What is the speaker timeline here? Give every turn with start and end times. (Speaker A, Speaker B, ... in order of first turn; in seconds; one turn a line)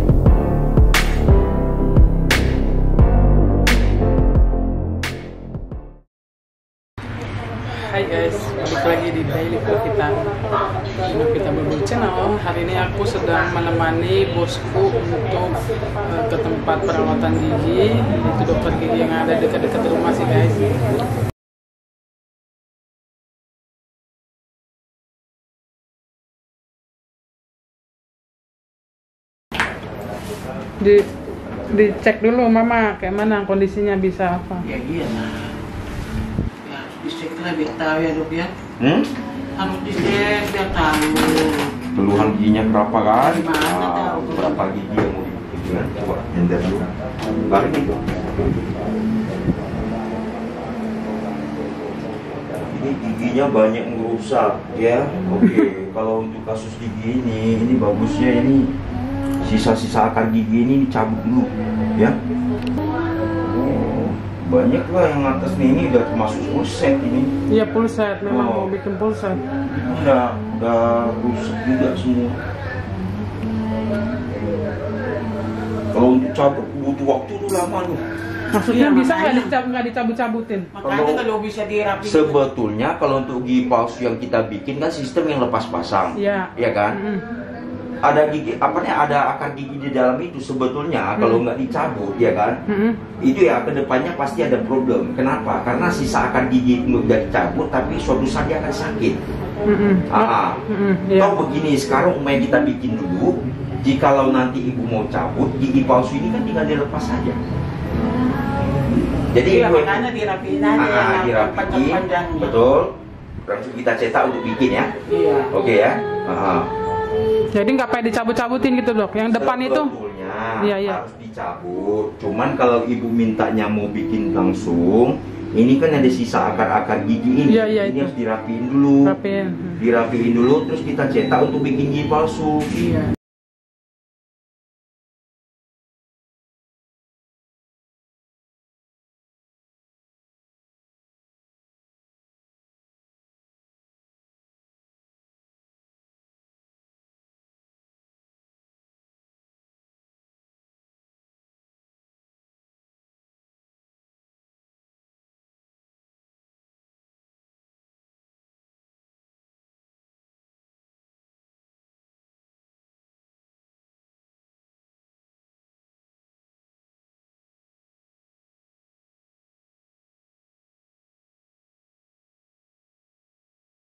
Speaker A: 7.7-10.3
Speaker A: 10.9-20.8
Speaker A: 30.8-31.1
Speaker A: 31.7-34.7
Speaker B: 34.6-35.5
Speaker B: 36.6-38.5
Speaker C: 38.8-39.1
Speaker B: 39.6-41.7
Speaker C: 41.9-46.9
Speaker B: 43.2-44.6
Speaker C: 47.5-48.0
Speaker C: 52.6-58.7
Speaker C: 59.5-62.2
Speaker C: 63.4-67.3
Speaker A: 67.5-69.4
Speaker C: 68.3-68.7
Speaker C: 69.7-72.4
Speaker C: 75.9-78.0
Speaker A: 78.5-80.7
Speaker B: 78.6-79.5
Speaker B: 80.7-82.4
Speaker C: 80.8-81.2
Speaker C: 82.0-87.0
Speaker A: 86.2-87.2
Speaker C: 88.0-92.6
Speaker A: 91.2-91.4
Speaker A: 92.7-93.0
Speaker C: 93.2-99.2
Speaker A: 99.7-101.4
Speaker C: 100.1-100.6
Speaker C: 101.2-107.4
Speaker C: 109.3-110.0
Speaker B: 109.4-112.6
Speaker C: 110.8-112.9
Speaker C: 113.5-114.9
Speaker B: 115.1-115.5
Speaker C: 115.5-116.7
Speaker A: 117.5-119.9
Speaker C: 119.3-129.2
Speaker A: 120.6-121.0
Speaker A: 127.5-128.1
Speaker A: 129.0-129.8
Speaker C: 129.8-132.7